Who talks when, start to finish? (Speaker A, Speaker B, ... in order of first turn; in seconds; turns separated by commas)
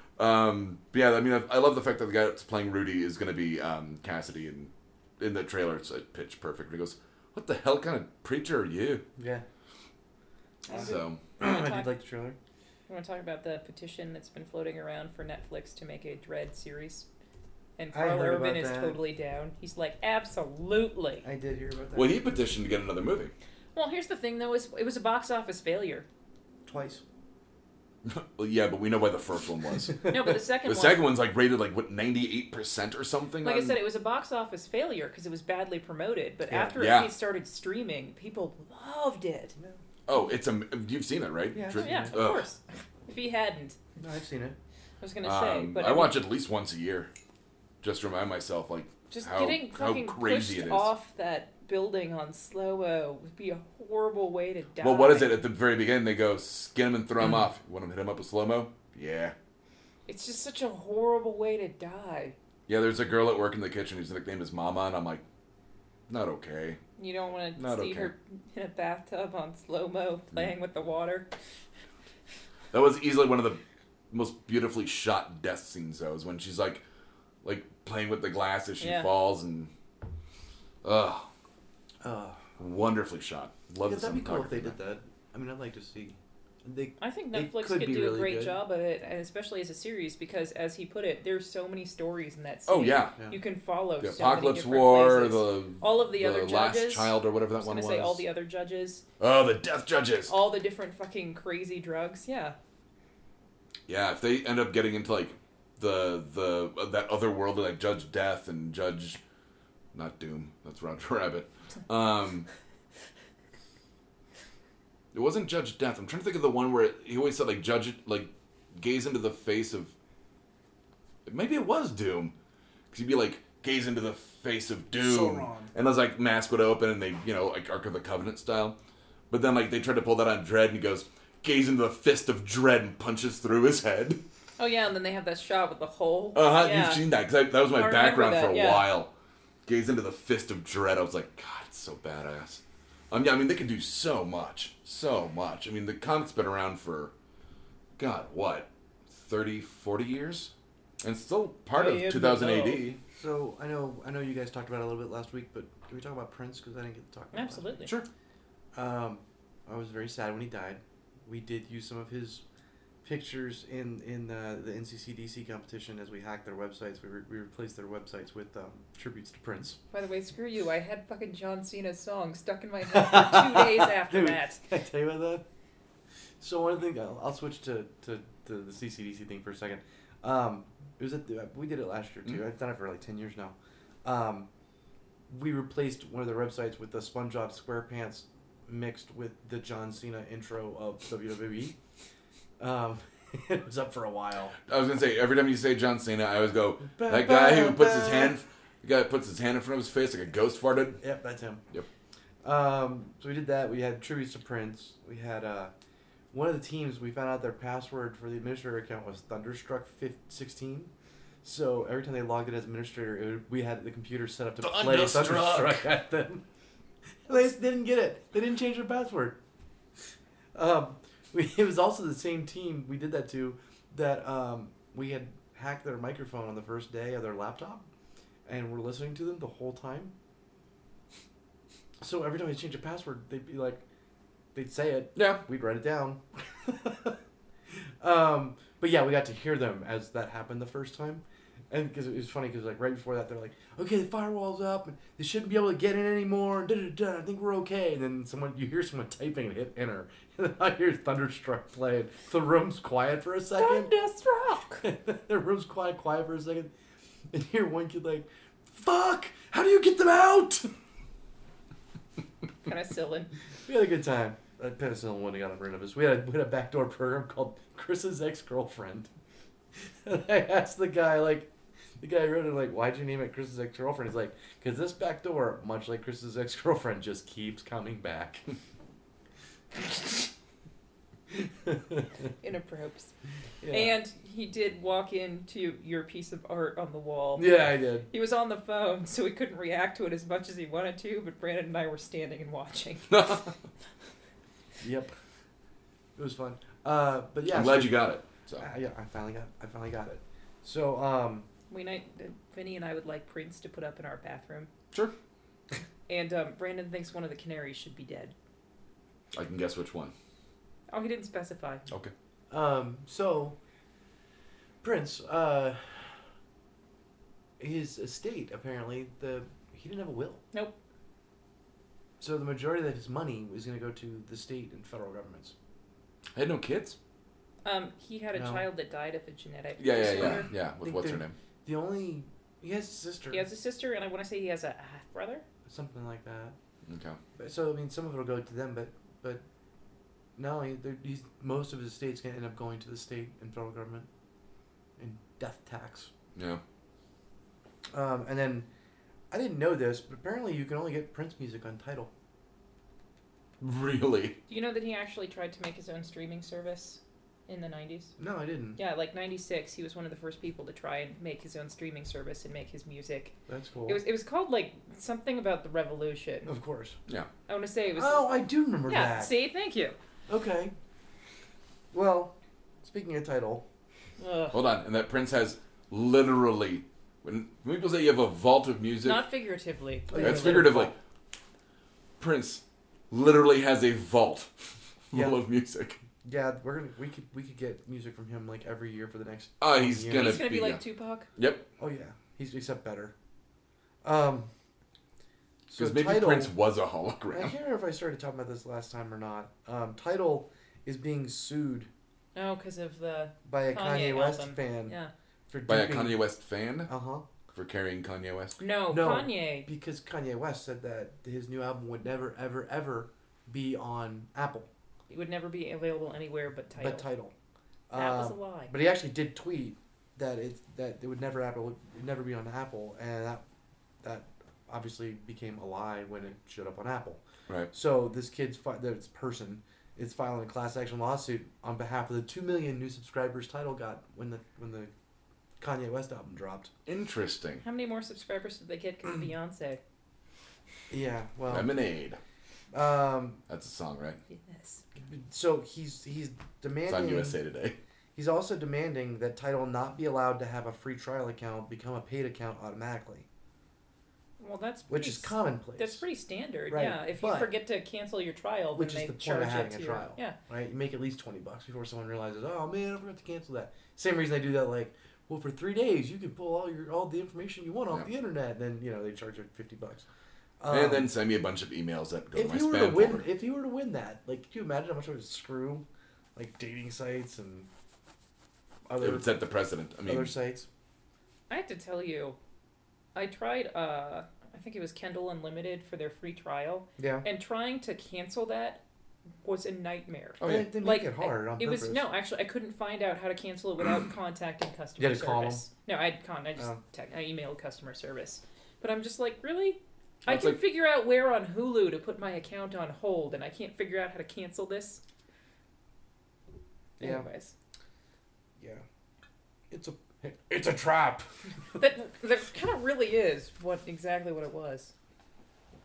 Speaker A: 0.2-9.0, Speaker B: 9.2-9.4, Speaker C: 10.7-11.9, Speaker A: 10.7-11.2, Speaker B: 10.7-12.4, Speaker C: 12.9-17.1, Speaker C: 17.8-21.2, Speaker B: 17.9-19.0, Speaker B: 21.2-22.2, Speaker A: 21.9-23.3, Speaker C: 23.7-26.1, Speaker B: 26.6-27.0, Speaker A: 28.0-33.8, Speaker C: 30.0-31.1, Speaker C: 33.4-39.5, Speaker B: 36.5-36.8, Speaker A: 36.8-37.1, Speaker A: 40.1-42.5, Speaker B: 41.5-42.1, Speaker C: 41.7-43.8, Speaker B: 44.0-44.5, Speaker C: 45.0-46.2, Speaker A: 45.2-47.1, Speaker A: 47.8-50.9, Speaker C: 49.1-55.4, Speaker A: 54.8-59.3, Speaker C: 60.1-62.3, Speaker A: 62.7-65.2, Speaker A: 66.1-66.8, Speaker C: 67.0-71.3, Speaker A: 67.5-68.1, Speaker A: 72.7-76.8, Speaker A: 77.4-79.7, Speaker C: 78.8-79.1, Speaker A: 80.8-81.3, Speaker B: 82.0-82.4, Speaker A: 82.6-84.7, Speaker B: 83.8-88.6, Speaker C: 87.0-99.0, Speaker A: 92.7-93.2, Speaker A: 94.0-98.2, Speaker A: 99.2-100.3, Speaker C: 100.3-102.5, Speaker A: 103.9-109.2, Speaker A: 109.9-112.5, Speaker A: 115.1-119.9, Speaker A: 121.2-122.3, Speaker A: 122.9-128.8, Speaker B: 124.9-125.7, Speaker A: 129.3-134.2, Speaker C: 134.6-137.0, Speaker A: 136.3-139.1, Speaker C: 137.7-138.9, Speaker A: 139.7-147.1, Speaker A: 148.0-150.5, Speaker A: 151.0-153.0, Speaker C: 151.7-152.8, Speaker B: 153.1-157.8, Speaker C: 157.3-157.9, Speaker B: 158.7-162.4, Speaker B: 163.0-169.8, Speaker C: 169.9-174.6, Speaker B: 172.9-175.4, Speaker B: 176.4-184.5, Speaker B: 185.3-191.8, Speaker B: 192.6-194.6, Speaker A: 194.7-201.0, Speaker B: 196.9-198.4, Speaker B: 201.0-201.6, Speaker B: 202.4-205.7, Speaker B: 206.3-210.9, Speaker B: 211.4-216.4, Speaker A: 214.6-215.9, Speaker B: 217.2-219.4, Speaker B: 220.5-227.9, Speaker B: 228.4-230.1, Speaker B: 232.0-233.8, Speaker B: 234.5-237.2, Speaker A: 235.2-235.4, Speaker B: 237.7-253.9, Speaker C: 253.6-254.8, Speaker B: 254.8-256.7, Speaker B: 257.3-260.7, Speaker C: 262.6-263.3, Speaker B: 263.6-269.1, Speaker B: 269.8-278.4, Speaker B: 281.3-282.1, Speaker C: 282.4-283.1, Speaker B: 283.6-283.9, Speaker C: 283.7-293.4, Speaker B: 287.4-288.1, Speaker A: 293.1-293.5, Speaker B: 294.8-295.1, Speaker B: 296.1-298.0, Speaker A: 297.5-298.7, Speaker B: 298.6-301.5, Speaker C: 301.7-304.7, Speaker C: 306.1-308.3, Speaker A: 309.3-310.1, Speaker C: 310.9-311.8, Speaker B: 312.5-313.6, Speaker B: 314.8-316.1, Speaker B: 317.6-320.4, Speaker B: 322.2-325.5, Speaker A: 326.3-327.0, Speaker C: 327.6-330.5, Speaker B: 328.3-328.6, Speaker A: 329.8-331.3, Speaker B: 330.1-333.4, Speaker C: 333.3-335.4, Speaker B: 335.7-336.6, Speaker A: 336.9-337.2, Speaker B: 337.4-339.4, Speaker B: 340.4-344.1, Speaker B: 345.0-346.1, Speaker A: 346.4-346.6, Speaker B: 347.9-348.7, Speaker B: 349.3-352.1, Speaker A: 353.6-354.4, Speaker C: 354.5-358.1, Speaker B: 358.2-358.8, Speaker C: 358.8-363.3, Speaker B: 363.5-364.0, Speaker C: 363.9-366.5, Speaker B: 366.4-367.0, Speaker C: 367.5-369.9, Speaker B: 367.9-369.3, Speaker B: 370.3-370.7, Speaker B: 371.9-373.6, Speaker C: 374.2-374.6, Speaker A: 374.5-379.2, Speaker C: 379.0-380.6, Speaker B: 380.1-380.9, Speaker A: 380.1-380.9, Speaker A: 382.2-386.0, Speaker B: 385.1-385.4, Speaker B: 386.2-390.4, Speaker A: 389.6-390.8, Speaker C: 390.1-391.3, Speaker A: 391.4-391.6, Speaker B: 391.8-393.1, Speaker B: 394.0-394.5, Speaker B: 395.7-396.5, Speaker A: 395.7-397.5, Speaker B: 397.3-401.9, Speaker C: 402.3-405.1, Speaker B: 403.4-404.9, Speaker B: 405.5-406.2, Speaker A: 405.7-406.9, Speaker B: 406.9-407.2, Speaker A: 407.5-408.6, Speaker C: 408.6-409.7, Speaker B: 408.9-414.7, Speaker C: 415.1-417.1, Speaker B: 416.8-417.3, Speaker B: 417.9-423.4, Speaker C: 417.9-418.7, Speaker B: 424.0-427.2, Speaker B: 427.7-434.9, Speaker B: 435.6-436.7, Speaker A: 436.9-437.6, Speaker C: 437.6-439.8, Speaker B: 440.9-441.7, Speaker A: 441.5-442.2, Speaker B: 442.7-443.4, Speaker A: 443.5-444.2, Speaker C: 444.3-444.8, Speaker B: 445.1-447.4, Speaker A: 446.9-447.8, Speaker B: 448.1-453.2, Speaker C: 454.4-460.4, Speaker B: 454.9-456.0, Speaker B: 456.7-457.5, Speaker B: 458.7-470.1, Speaker B: 470.6-471.1, Speaker A: 470.7-473.2, Speaker B: 472.3-477.7, Speaker B: 478.9-479.3, Speaker A: 479.0-480.3, Speaker B: 480.0-480.7, Speaker C: 481.5-482.4, Speaker C: 483.1-488.8, Speaker B: 487.0-487.2, Speaker C: 489.4-505.0, Speaker A: 490.4-490.7, Speaker B: 490.4-492.0, Speaker B: 495.0-495.6, Speaker A: 500.2-500.6, Speaker C: 507.0-507.5, Speaker B: 507.0-507.2, Speaker B: 508.6-508.8, Speaker B: 509.7-511.3, Speaker C: 511.8-514.9